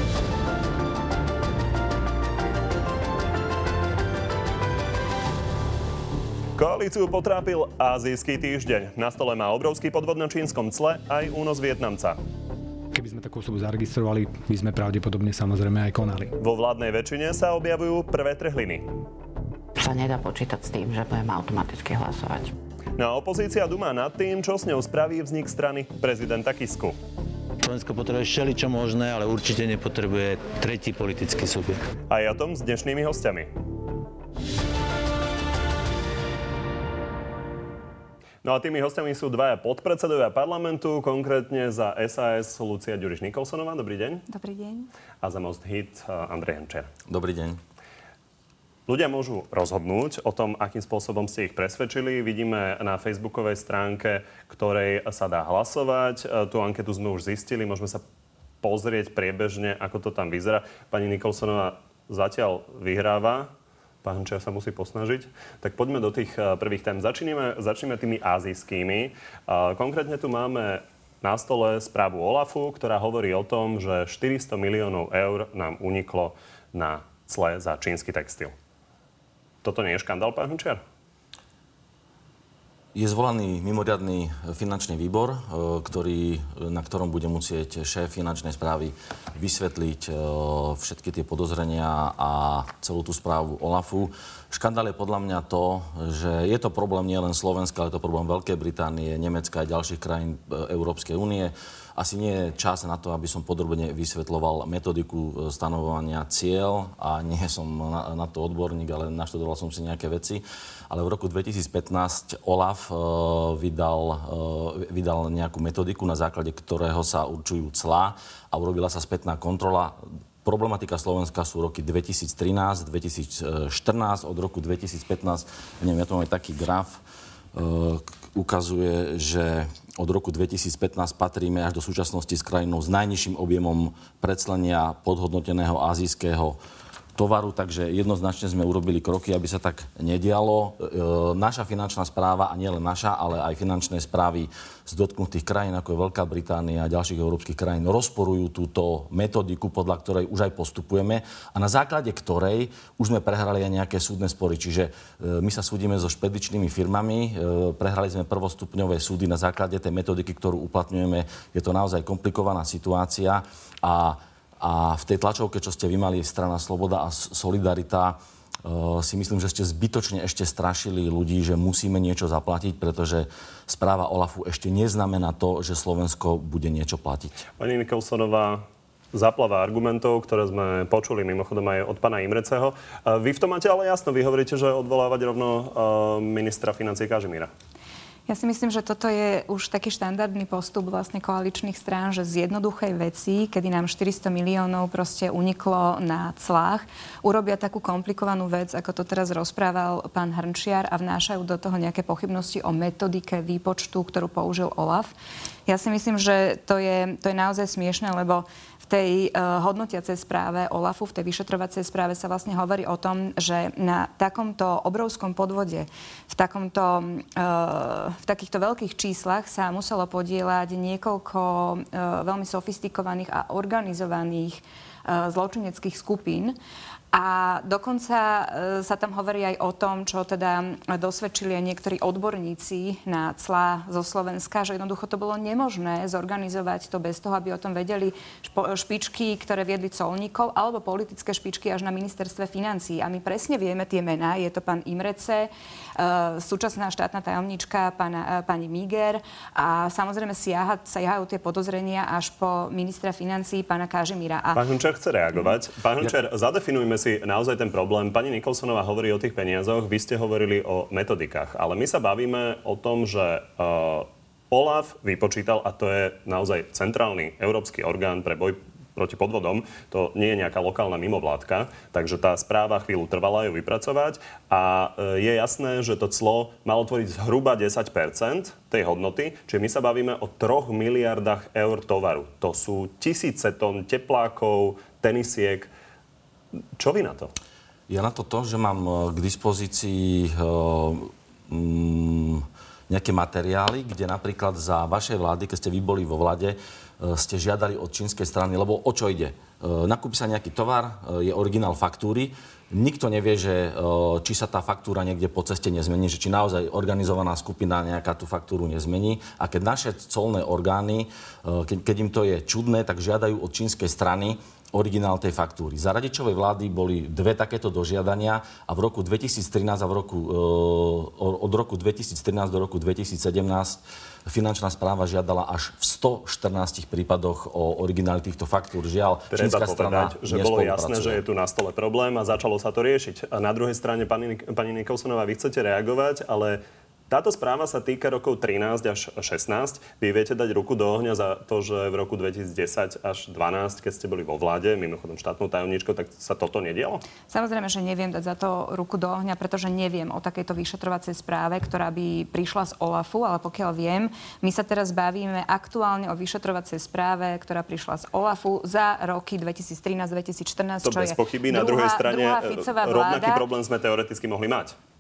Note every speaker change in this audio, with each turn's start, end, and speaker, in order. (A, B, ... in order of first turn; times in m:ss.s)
0:06.6-0:12.2 A
0:12.9-0:16.4 B
0:16.4-0:18.9 A
0:19.8-0:22.5 C
0:23.0-0:27.0 A
0:27.6-0:31.8 D
0:32.1-0:33.5 A
0:38.4-0:44.2 A
0:44.3-0:44.9 E
0:45.2-0:46.9 A
0:47.1-0:47.6 F
0:48.9-0:58.0 A
0:58.6-1:03.5 A
1:04.0-1:18.5 A
1:19.6-1:20.8 A
1:22.9-2:07.0 F
2:07.5-2:16.6 F
2:17.2-2:57.4 F
2:57.6-3:07.5 A
3:08.3-3:25.1 E
3:25.7-3:46.6 E
3:47.1-4:14.6 E
4:14.6-4:45.7 A
4:46.8-4:47.3 A
4:47.9-5:31.2 F
5:29.3-5:47.0 A
5:47.3-6:03.4 E
6:00.8-6:04.8 A